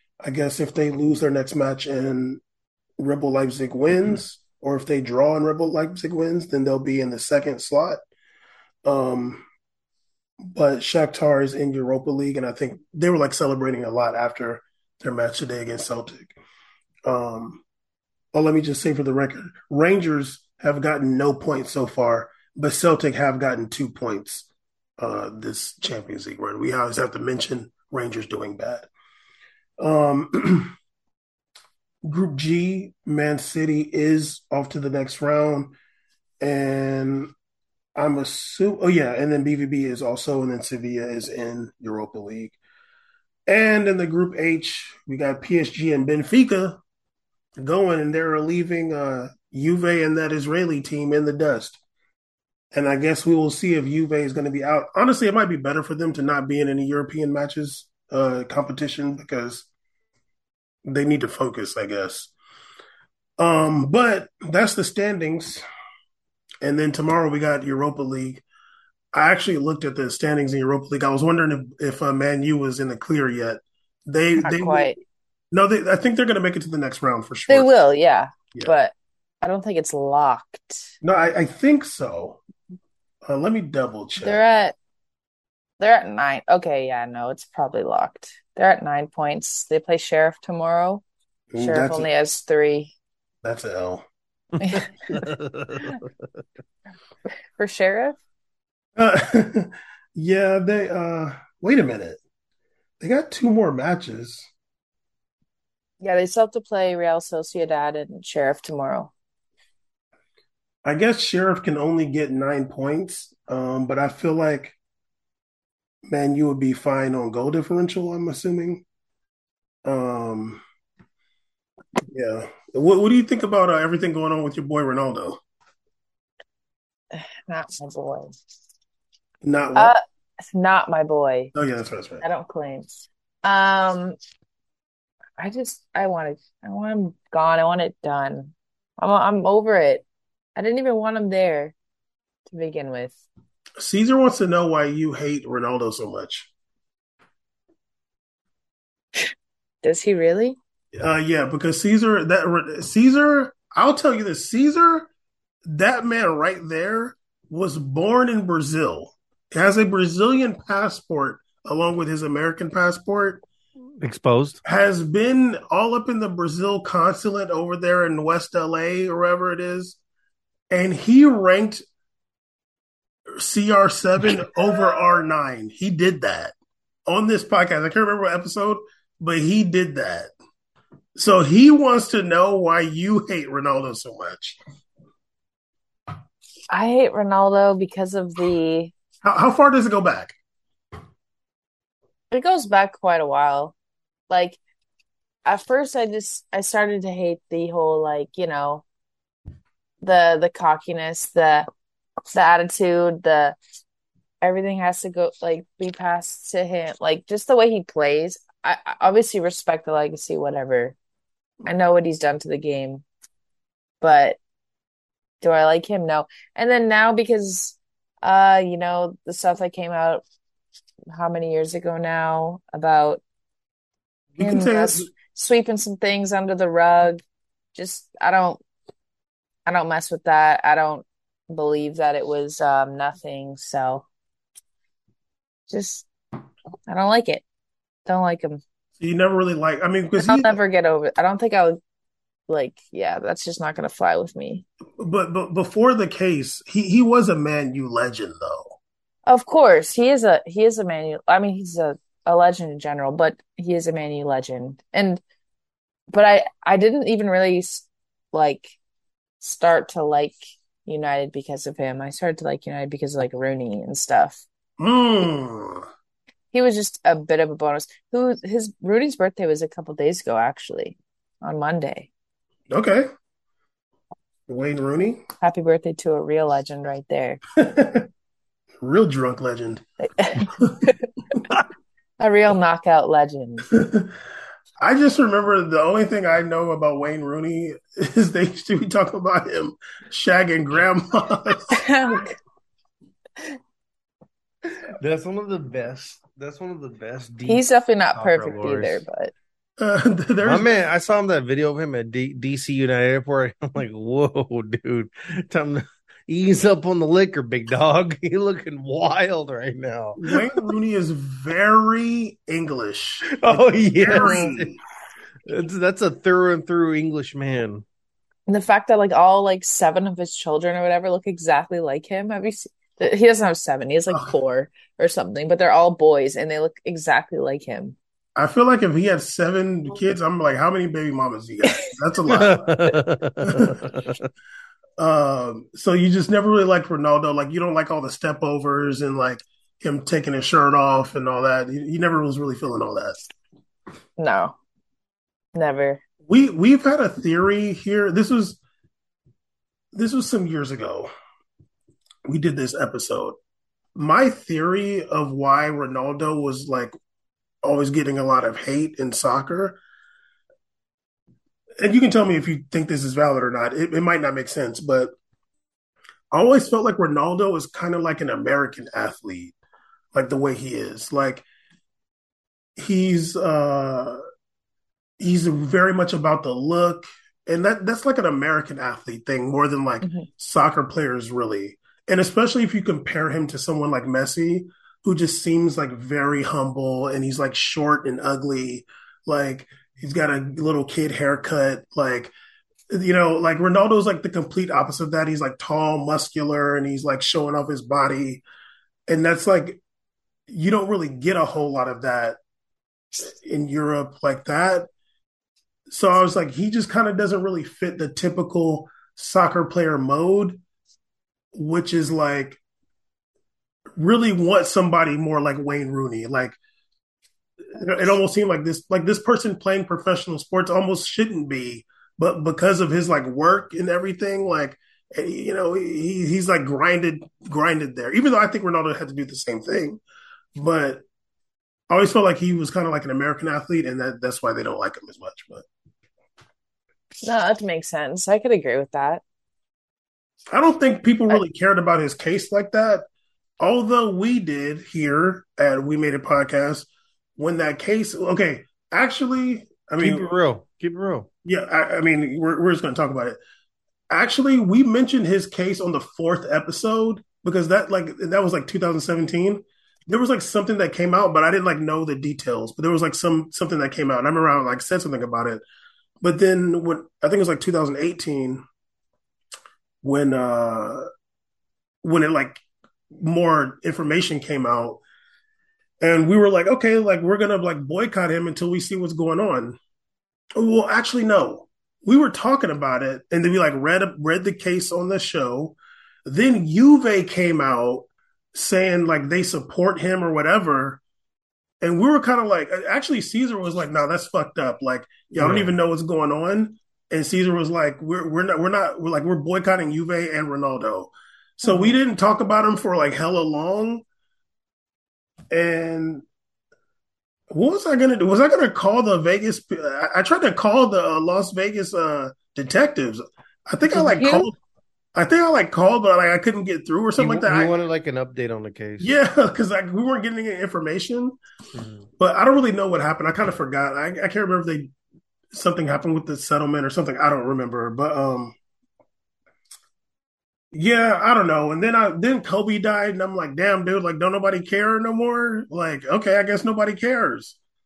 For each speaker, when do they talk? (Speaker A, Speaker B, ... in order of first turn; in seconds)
Speaker A: 0.2-2.4, 3.0-8.0, 8.8-9.4, 10.4-16.3, 17.1-17.6, 18.3-24.5, 25.0-28.9, 29.8-30.7, 32.0-35.7, 36.4-37.3, 38.0-42.6, 43.5-46.8, 47.6-51.8, 52.7-59.7, 60.8-62.3, 63.4-65.6, 66.6-68.4, 69.1-75.0, 75.5-77.7, 81.0-82.4, 83.2-84.4, 91.5-92.1, 93.4-94.0, 99.0-102.2, 103.0-104.5, 110.8-114.7, 116.1-118.8, 119.8-120.6, 122.1-125.4, 129.4-129.9, 131.5-132.2, 143.8-146.5, 150.9-155.1, 155.6-163.4, 164.6-170.0, 170.7-171.8, 173.3-176.5, 177.1-180.3, 181.2-184.6, 189.2-190.3, 224.3-225.1, 239.0-240.6, 245.0-248.8, 264.8-265.9, 272.7-273.1, 274.5-275.2, 277.6-278.1, 278.8-279.8, 280.4-280.9, 283.7-284.1, 284.8-291.8, 299.8-300.7, 310.2-314.7, 328.4-332.7, 333.5-333.8, 335.0-343.3, 346.2-348.6, 349.9-351.1, 352.3-353.4, 353.9-356.9, 357.6-359.8, 361.8-365.1, 366.3-369.5, 370.1-371.4, 372.8-374.2, 375.2-392.3, 392.9-398.4, 399.1-399.8, 400.5-402.4, 403.2-404.9, 405.9-410.6, 411.5-412.6, 414.0-416.6, 417.7-430.0, 430.6-431.0, 431.9-435.6, 440.5-443.0, 443.6-450.3, 451.4-453.4, 454.1-465.6, 466.2-468.6, 470.0-471.1, 472.0-475.0, 476.0-479.8, 480.6-491.0, 491.8-504.0, 505.5-506.2, 507.5-514.5, 515.1-517.7, 519.0-521.3, 522.2-524.9, 525.5-528.5, 530.7-537.6
Speaker B: 74.4-75.0, 77.5-80.9, 84.2-84.8, 85.8-91.0, 91.6-92.9, 97.6-98.2, 106.0-109.1, 127.1-128.3, 129.7-131.5, 132.2-134.2, 135.4-140.0, 140.6-141.7, 142.5-143.2, 149.8-150.6, 186.7-188.9, 192.3-193.7, 194.3-194.6, 195.4-198.8, 200.0-201.7, 202.3-203.6, 204.4-210.9, 211.7-213.0, 214.0-214.4, 215.4-220.2, 221.1-223.2, 224.4-227.2, 227.7-228.6, 229.7-234.1, 235.7-236.1, 236.9-237.4, 238.1-238.6, 240.2-241.8, 242.5-244.6, 249.2-255.2, 256.1-258.8, 259.4-264.4, 266.5-272.1, 275.4-277.4, 280.0-280.9, 282.2-283.7, 291.7-292.4, 297.4-299.3, 318.5-328.0, 331.6-332.5, 344.2-344.5, 345.5-346.0, 437.2-439.2, 501.7-501.9, 513.8-514.5
Speaker C: 94.6-96.0, 164.0-164.6, 295.0-297.6, 298.1-299.0, 300.4-310.3, 313.4-314.8, 315.4-317.8, 332.3-334.2, 450.0-451.3, 495.4-495.7, 517.2-519.1, 521.7-522.0